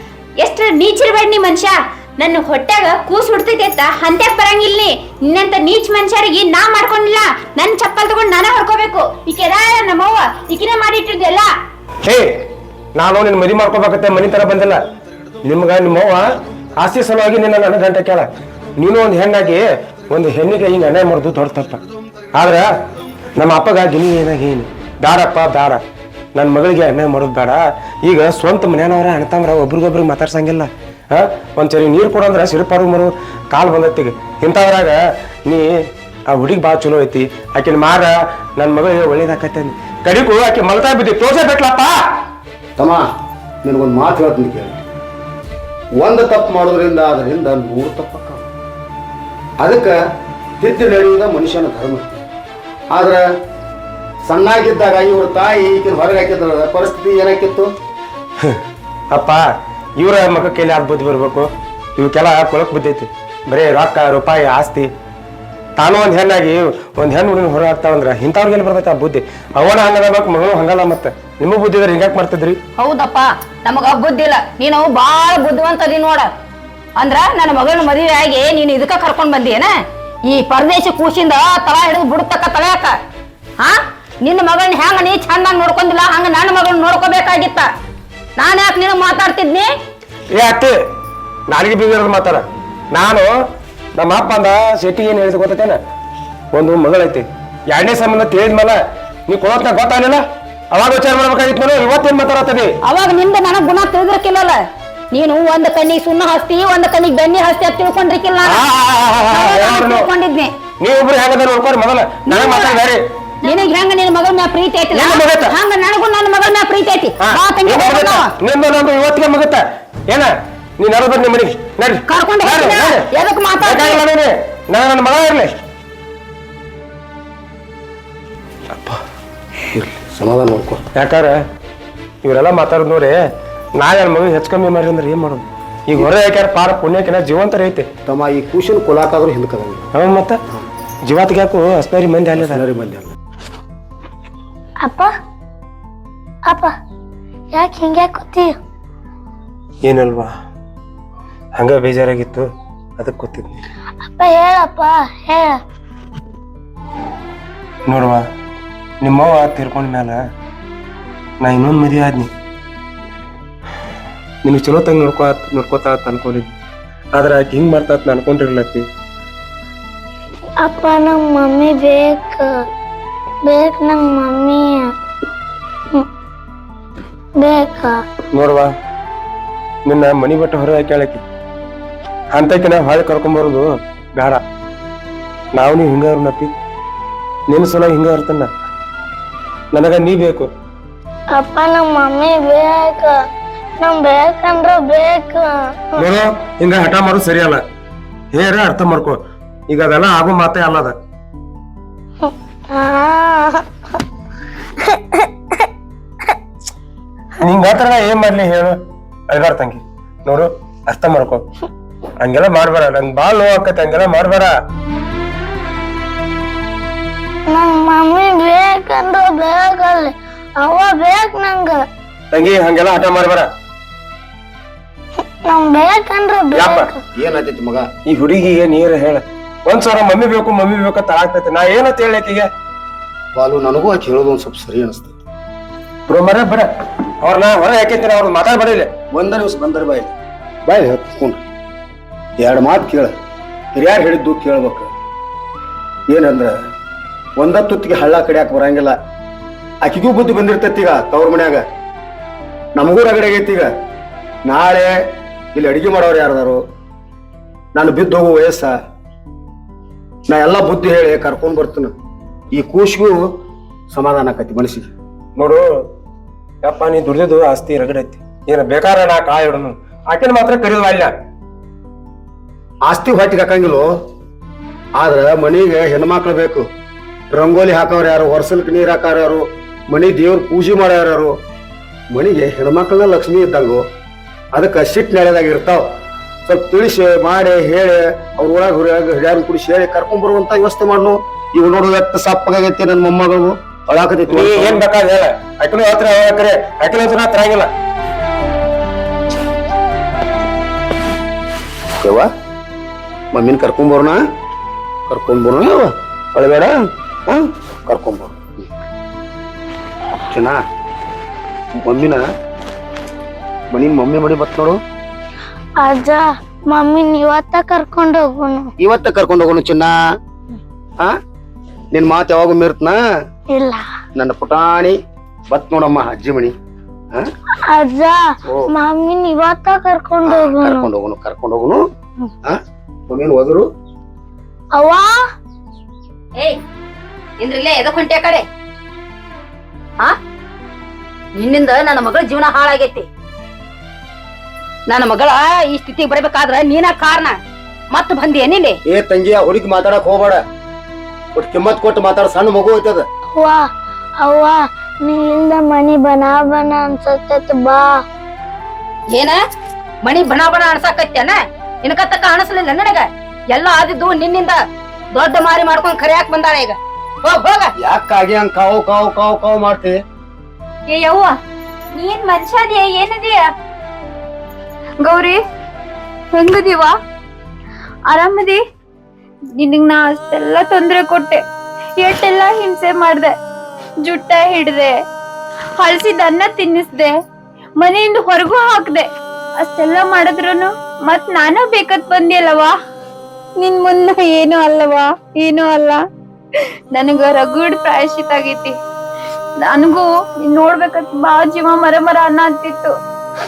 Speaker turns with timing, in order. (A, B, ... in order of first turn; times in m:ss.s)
0:00.4-0:11.5 A
0:13.0-0:14.8 B
0:15.4-0:16.3 B
0:16.8-0:18.3 B
0:18.8-0:21.8 B
0:22.4-0:22.7 B
0:23.4-0:25.8 B
0:26.4-0:35.7 B
0:36.3-0:42.0 B
0:42.8-0:43.0 C
0:43.6-0:44.8 C
0:46.0-0:48.5 C
0:49.6-0:50.0 C
0:50.6-0:52.2 C
0:52.9-0:53.2 C
0:54.2-0:57.7 C
0:59.1-0:59.5 B
1:00.0-1:04.9 B
1:05.8-1:12.6 B
1:12.8-1:16.3 D
1:17.0-1:19.7 D
1:20.3-1:23.0 D
1:23.6-1:27.7 D
1:28.4-1:29.7 D
1:30.3-1:30.7 B
1:31.5-1:33.3 B
1:34.0-1:35.8 B
1:36.5-1:38.8 B
1:39.3-1:42.8 B
1:42.8-1:44.6 D
1:45.1-1:48.6 D
1:48.5-1:50.1 B
1:49.3-1:50.5 D
1:50.8-1:53.0 B
1:52.3-1:52.8 D
1:53.4-1:58.3 D
1:54.9-1:55.5 B
1:57.2-2:03.1 B
2:02.1-2:04.0 D
2:03.6-2:05.5 B
2:09.7-2:10.8 C
2:11.0-2:11.4 B
2:12.2-2:13.2 B
2:13.8-2:17.9 B
2:18.1-2:19.9 C
2:19.9-2:20.4 B
2:21.0-2:22.6 B
2:22.4-2:23.1 C
2:24.8-2:25.1 E
2:26.5-2:26.7 E
2:27.5-2:28.6 E
2:29.8-2:30.3 B
2:31.6-2:32.5 B
2:33.0-2:33.6 B
2:34.1-2:35.6 E
2:37.9-2:38.2 B
2:39.0-2:40.2 B
2:41.4-2:42.3 B
2:44.4-2:46.5 B
2:47.2-2:48.8 B
2:50.6-2:52.5 E
2:53.5-2:54.9 E
2:57.4-2:58.0 E
2:58.3-2:58.7 B
2:59.9-3:01.2 B
3:02.3-3:04.4 B
3:05.5-3:06.5 B
3:07.5-3:08.5 B
3:09.7-3:10.5 B
3:11.4-3:13.2 E
3:13.8-3:16.0 E
3:16.0-3:17.6 B
3:18.4-3:19.2 B
3:19.7-3:21.0 B
3:22.2-3:23.7 E
3:24.8-3:25.7 E
3:27.4-3:28.8 B
3:29.3-3:31.4 B
3:32.2-3:34.5 B
3:37.5-3:41.8 E
3:42.3-3:43.5 B
3:45.4-3:47.0 E
3:46.6-3:46.9 B
3:47.2-3:47.9 C
3:48.1-3:52.5 B
3:53.4-3:55.2 C
3:56.1-3:56.7 B
3:57.2-3:58.9 B
3:59.1-4:00.1 C
4:00.7-4:01.4 C
4:02.4-4:03.1 C
4:03.7-4:04.9 C
4:06.1-4:06.5 C
4:07.4-4:09.0 C
4:09.8-4:11.6 C
4:12.8-4:13.7 C
4:14.5-4:15.0 C
4:15.5-4:16.6 C
4:17.8-4:18.8 C
4:20.3-4:21.9 C
4:22.5-4:23.2 C
4:23.9-4:24.9 C
4:25.4-4:25.6 B
4:26.6-4:31.1 B
4:32.9-4:33.9 C
4:35.0-4:36.6 C
4:37.3-4:41.3 C
4:42.1-4:43.8 C
4:44.5-4:45.9 C
4:46.5-4:54.8 C
4:54.3-4:57.7 B
5:02.0-5:02.3 C
5:03.3-5:04.2 C
5:05.1-5:06.7 C
5:07.3-5:08.5 C
5:10.3-5:10.6 C
5:11.8-5:12.3 C
5:13.7-5:14.8 C
5:15.8-5:18.7 E
5:18.8-5:20.0 C
5:21.9-5:23.0 C
5:23.5-5:23.8 E
5:24.2-5:25.0 C
5:25.5-5:26.5 C
5:27.7-5:30.9 E
5:30.2-5:31.8 C
5:32.4-5:33.7 C
5:34.8-5:35.1 E
5:37.4-5:38.4 D
5:41.4-5:43.1 D
5:44.9-5:47.4 D
5:47.9-5:48.8 D
5:48.9-5:50.4 C
5:51.4-5:53.1 C
5:53.3-5:53.7 E
5:54.2-5:58.0 E
5:59.1-5:59.4 D
6:00.0-6:04.6 D
6:05.1-6:07.7 D
6:07.8-6:10.0 C
6:10.9-6:11.3 A
6:11.9-6:13.5 A
6:15.0-6:15.4 A
6:16.3-6:17.0 A
6:18.1-6:18.6 A
6:19.6-6:21.4 A
6:22.0-6:23.3 A
6:24.0-6:25.0 A
6:25.8-6:27.2 A
6:27.8-6:29.1 A
6:29.6-6:32.7 A
6:33.6-6:36.0 A
6:36.6-6:38.7 A
6:39.6-6:42.9 A